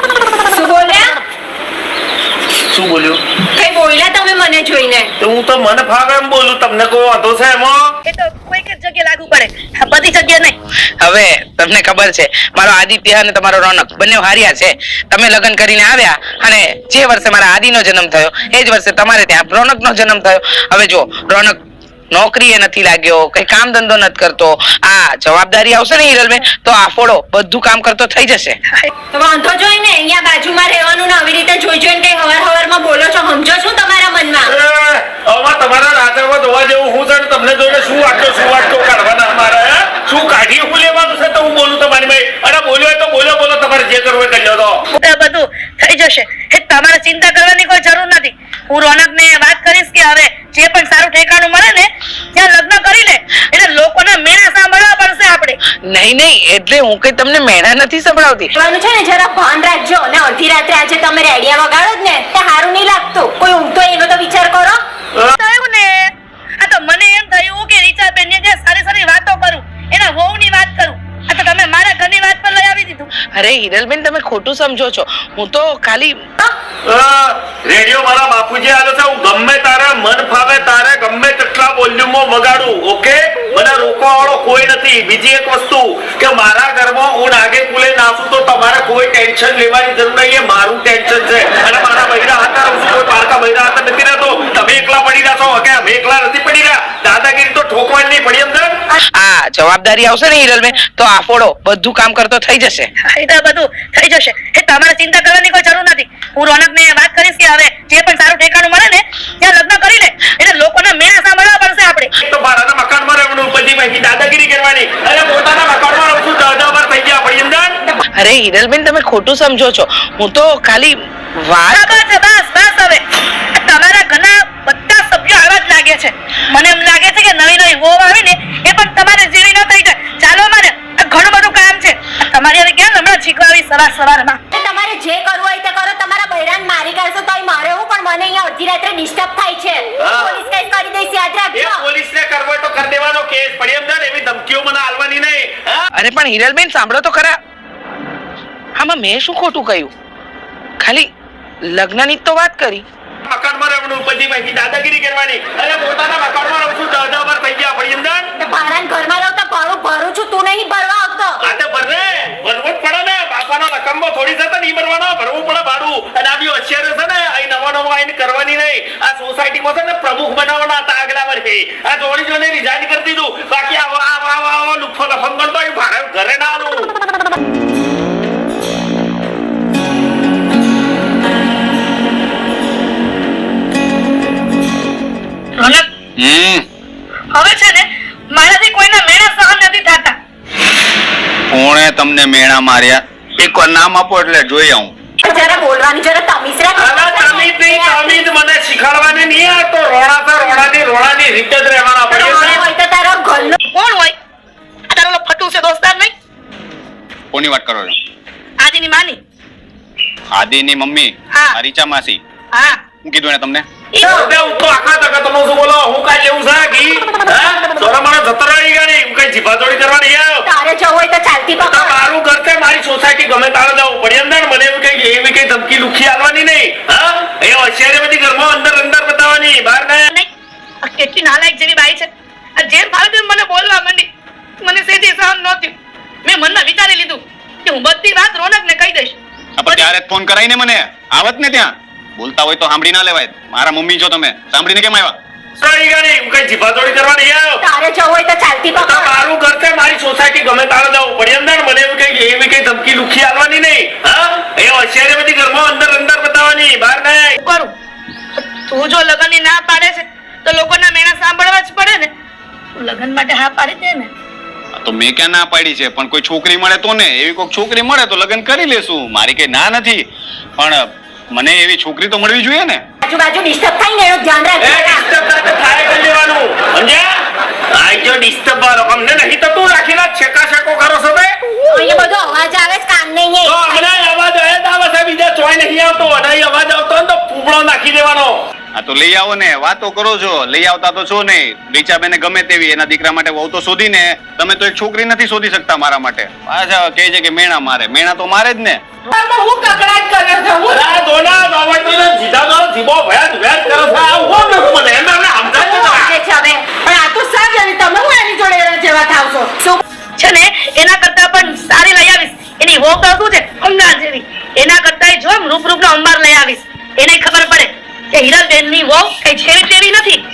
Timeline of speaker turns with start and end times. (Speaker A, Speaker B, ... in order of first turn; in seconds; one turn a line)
Speaker A: 0.5-1.1
Speaker B: 2.7-3.2
Speaker A: 3.5-5.1
Speaker B: 5.2-7.9
Speaker C: 8.1-10.6
Speaker D: 11.0-21.6
Speaker D: 22.1-28.6
Speaker A: 29.1-34.5
Speaker B: 34.4-44.8
Speaker C: 44.9-55.6
Speaker D: 55.9-58.5
Speaker A: 58.6-64.8
Speaker C: 65.4-73.1
Speaker D: 73.3-76.2
Speaker B: 76.8-98.8
Speaker D: 99.2-102.9
Speaker C: 103.0-112.1
Speaker B: 112.2-117.8
Speaker D: 118.2-122.0
Speaker C: 121.7-123.0
Speaker C: 123.5-134.4
Speaker A: 134.5-141.8
Speaker B: 140.0-140.4
Speaker B: 141.5-145.8
Speaker D: 146.0-147.4
Speaker D: 148.8-149.9
Speaker D: 150.8-151.1
Speaker D: 151.7-152.8
Speaker B: 153.2-158.3
Speaker A: 158.4-161.4
Speaker B: 161.4-176.9
Speaker C: 185.6-185.9
Speaker E: 186.2-186.7
Speaker C: 187.3-190.2
Speaker E: 191.5-194.9
Speaker A: 195.2-198.2
Speaker B: 196.8-202.7
Speaker A: 202.1-203.6
Speaker C: 203.7-204.2
Speaker C: 204.9-206.1
Speaker E: 207.3-208.0
Speaker C: 208.6-209.2
Speaker E: 210.3-212.2
Speaker C: 211.3-211.6
Speaker C: 212.5-212.8
Speaker E: 212.9-213.7
Speaker A: 214.0-214.3
Speaker B: 214.1-220.5
Speaker A: 220.5-222.0
Speaker B: 221.6-230.1
Speaker C: 230.8-234.1
Speaker C: 234.6-239.9
Speaker E: 239.6-245.2
Speaker B: 245.6-247.6
Speaker A: 247.6-249.2
Speaker B: 248.8-257.4
Speaker C: 257.4-257.7
Speaker C: 258.4-262.1
Speaker C: 262.8-264.1
Speaker E: 264.8-270.1
Speaker E: 270.6-272.8
Speaker A: 273.0-275.1
Speaker B: 274.6-277.1
Speaker B: 277.7-281.4
Speaker A: 281.7-283.9
Speaker B: 283.4-288.4
Speaker E: 288.7-298.8
Speaker A: 299.1-300.8
Speaker B: 300.7-306.1
Speaker A: 305.5-309.8
Speaker C: 310.2-320.2